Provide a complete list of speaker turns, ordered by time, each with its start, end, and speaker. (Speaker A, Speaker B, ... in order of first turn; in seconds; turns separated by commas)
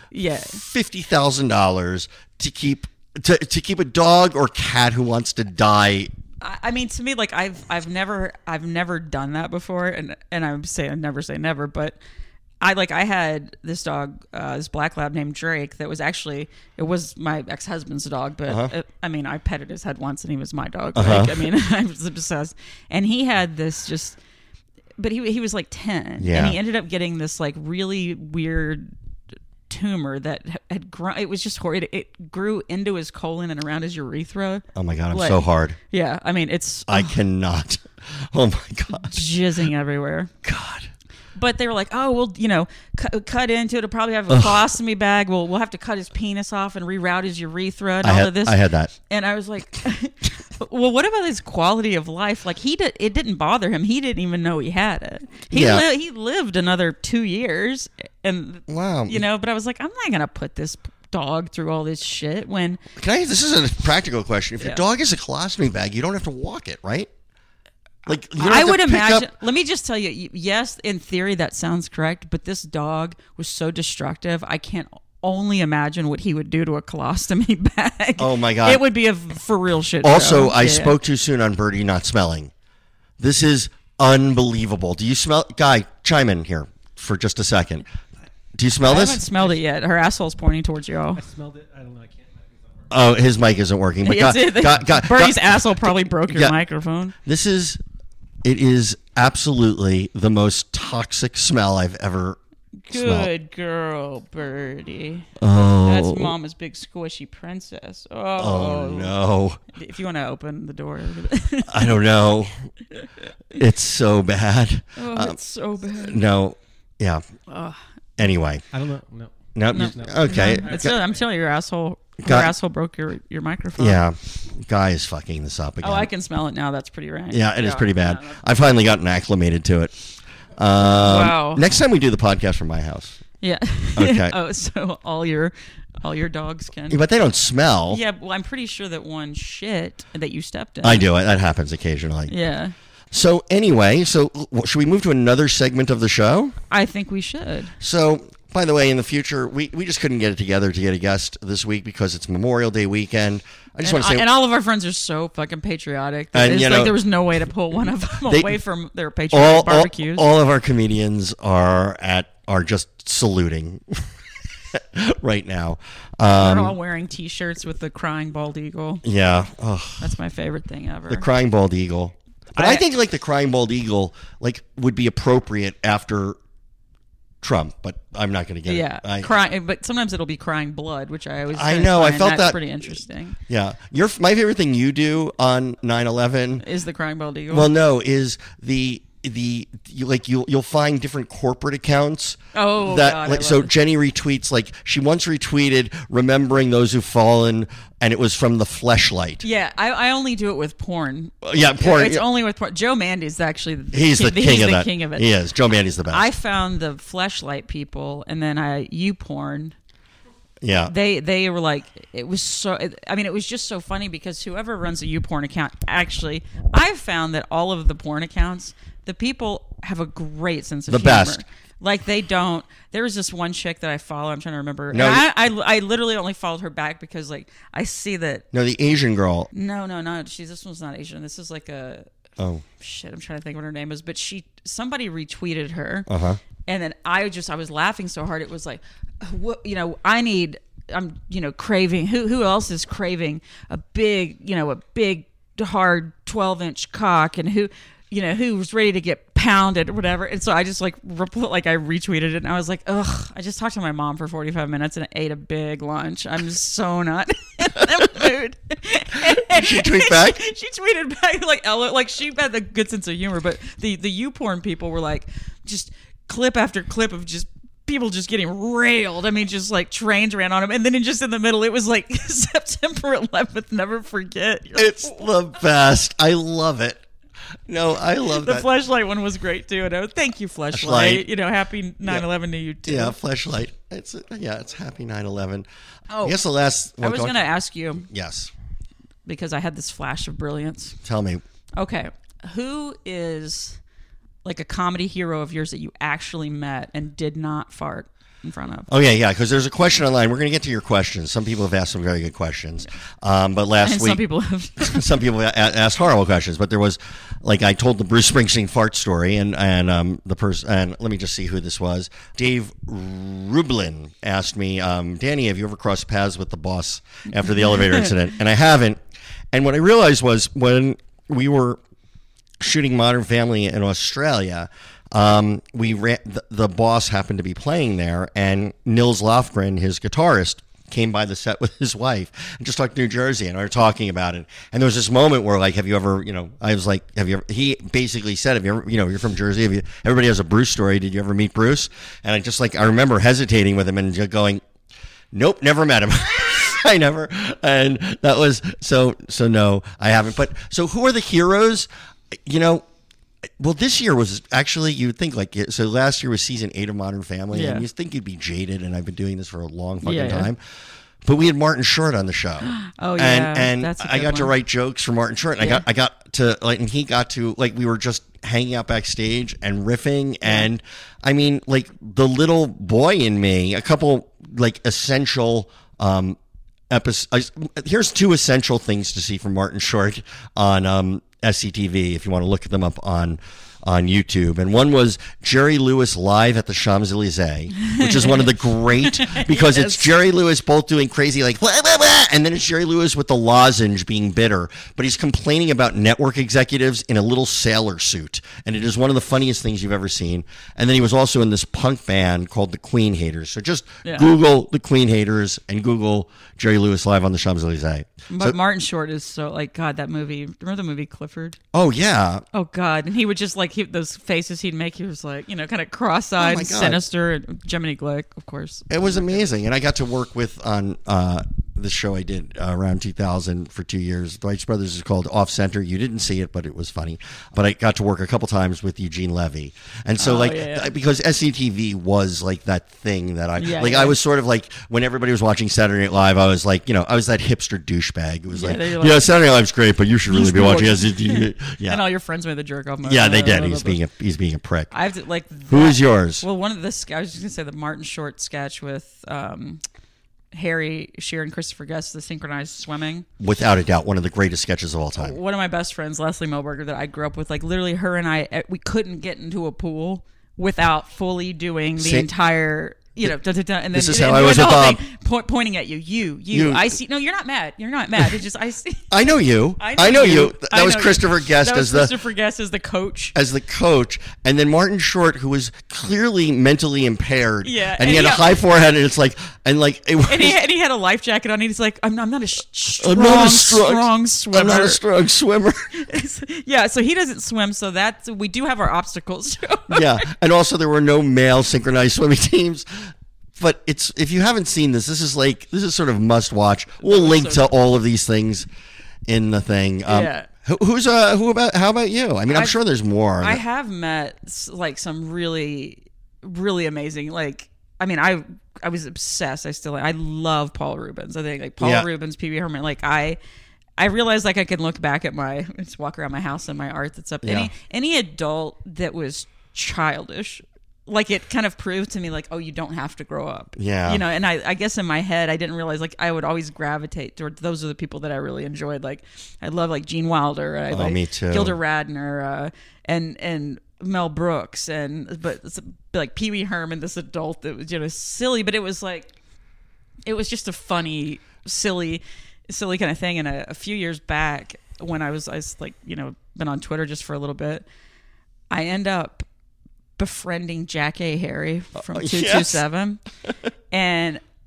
Speaker A: 0.1-0.6, Speaker B: 0.4-6.1, Speaker A: 6.4-12.0, Speaker A: 12.6-24.2, Speaker B: 18.5-18.7, Speaker B: 20.9-21.4, Speaker A: 25.0-28.9, Speaker B: 26.2-26.6, Speaker A: 29.7-37.1, Speaker B: 34.7-35.8, Speaker B: 36.9-39.1, Speaker A: 38.9-40.3, Speaker B: 40.4-40.9, Speaker A: 41.3-62.8, Speaker B: 44.3-44.6, Speaker B: 48.0-48.9, Speaker B: 55.5-55.8, Speaker B: 58.7-59.2, Speaker B: 63.0-67.1, Speaker B: 68.0-69.3, Speaker A: 68.3-81.0, Speaker B: 78.2-78.8, Speaker B: 80.0-82.5, Speaker B: 83.2-87.9, Speaker B: 88.5-89.2, Speaker A: 88.8-91.2, Speaker C: 89.3-89.6, Speaker C: 91.1-93.2, Speaker B: 92.9-96.5, Speaker A: 94.0-97.1, Speaker B: 97.2-97.8, Speaker B: 98.4-102.4, Speaker A: 102.9-105.3, Speaker B: 102.9-103.3, Speaker B: 105.4-106.3, Speaker A: 105.8-109.2, Speaker B: 108.4-109.6, Speaker A: 109.7-112.0, Speaker B: 111.7-112.5, Speaker B: 113.5-115.4, Speaker A: 115.0-116.2, Speaker B: 115.9-117.2, Speaker A: 117.5-117.8, Speaker B: 118.2-118.6, Speaker C: 118.7-121.3, Speaker B: 119.5-121.0, Speaker A: 119.7-124.0, Speaker B: 122.2-122.5, Speaker B: 123.8-126.1, Speaker A: 125.8-128.4, Speaker B: 127.3-129.9, Speaker B: 130.6-133.2, Speaker A: 130.8-131.7, Speaker A: 133.4-137.0, Speaker B: 133.9-134.3, Speaker B: 136.9-138.0, Speaker A: 137.9-141.0, Speaker B: 140.8-142.3, Speaker A: 142.3-142.7, Speaker B: 143.1-146.5, Speaker A: 146.7-147.8, Speaker B: 147.8-154.3, Speaker A: 153.8-160.2, Speaker B: 156.3-157.0, Speaker B: 158.2-158.6, Speaker B: 159.3-164.1, Speaker B: 164.7-166.8, Speaker A: 166.3-169.0, Speaker B: 169.0-170.1, Speaker A: 170.0-171.2, Speaker B: 171.1-176.4, Speaker A: 172.5-172.9, Speaker B: 177.4-179.3, Speaker A: 178.7-183.4, Speaker B: 181.5-183.0, Speaker B: 183.5-186.6, Speaker A: 186.6-187.7, Speaker B: 187.5-199.4, Speaker A: 192.5-193.7, Speaker A: 199.4-205.3, Speaker B: 201.4-202.2, Speaker B: 203.9-206.3, Speaker A: 206.1-209.7, Speaker B: 210.6-210.9, Speaker A: 210.9-228.4, Speaker B: 220.9-221.4, Speaker B: 224.9-225.2, Speaker B: 228.5-229.5, Speaker A: 229.5-232.1, Speaker B: 232.4-232.6, Speaker A: 232.8-236.1, Speaker B: 236.1-236.4, Speaker A: 236.6-275.2, Speaker B: 259.2-260.4, Speaker B: 274.8-277.0, Speaker B: 277.7-278.7, Speaker A: 278.3-283.2, Speaker B: 280.7-281.3, Speaker B: 282.9-285.7, Speaker A: 286.1-286.4, Speaker B: 286.2-287.4, Speaker A: 287.0-288.1, Speaker B: 288.0-288.5, Speaker A: 289.2-291.0, Speaker B: 291.0-291.4, Speaker A: 291.8-293.8, Speaker A: 294.4-298.9, Speaker B: 298.9-304.2, Speaker A: 303.8-305.0, Speaker B: 304.8-319.0, Speaker A: 317.5-318.1, Speaker B: 319.5-321.8, Speaker B: 322.6-344.6, Speaker B: 345.3-352.8, Speaker B: 353.6-360.6, Speaker A: 357.5-357.8, Speaker A: 360.0-360.5, Speaker B: 361.2-376.4, Speaker A: 362.6-364.5, Speaker B: 376.9-408.6, Speaker A: 387.8-390.2, Speaker A: 404.0-404.3, Speaker A: 408.3-411.6, Speaker B: 411.7-412.4, Speaker A: 412.5-419.5, Speaker B: 416.4-417.0, Speaker B: 418.9-442.0, Speaker A: 430.2-430.9, Speaker A: 433.6-434.2, Speaker A: 438.5-439.3, Speaker A: 440.3-444.0, Speaker B: 443.0-444.9, Speaker A: 444.9-449.8, Speaker B: 445.7-446.4, Speaker A: 450.5-453.2, Speaker B: 453.4-455.4, Speaker A: 455.2-469.1, Speaker B: 462.0-462.3, Speaker B: 463.9-465.0, Speaker B: 466.5-466.9, Speaker B: 469.1-472.2, Speaker A: 469.8-473.3, Speaker B: 473.3-480.6, Speaker A: 477.6-478.6, Speaker A: 480.2-485.0, Speaker B: 483.0-485.9, Speaker A: 485.9-490.3, Speaker B: 489.9-498.7, Speaker A: 497.0-497.7, Speaker B: 499.3-503.6, Speaker A: 500.1-500.5, Speaker A: 502.5-502.8, Speaker A: 503.4-513.4, Speaker B: 511.8-512.1, Speaker A: 514.0-539.3, Speaker B: 517.4-517.7, Speaker B: 523.8-524.2, Speaker B: 530.9-531.8, Speaker A: 540.2-547.9, Speaker A: 548.7-549.4, Speaker A: 550.2-553.2, Speaker B: 552.0-552.8, Speaker A: 553.9-554.4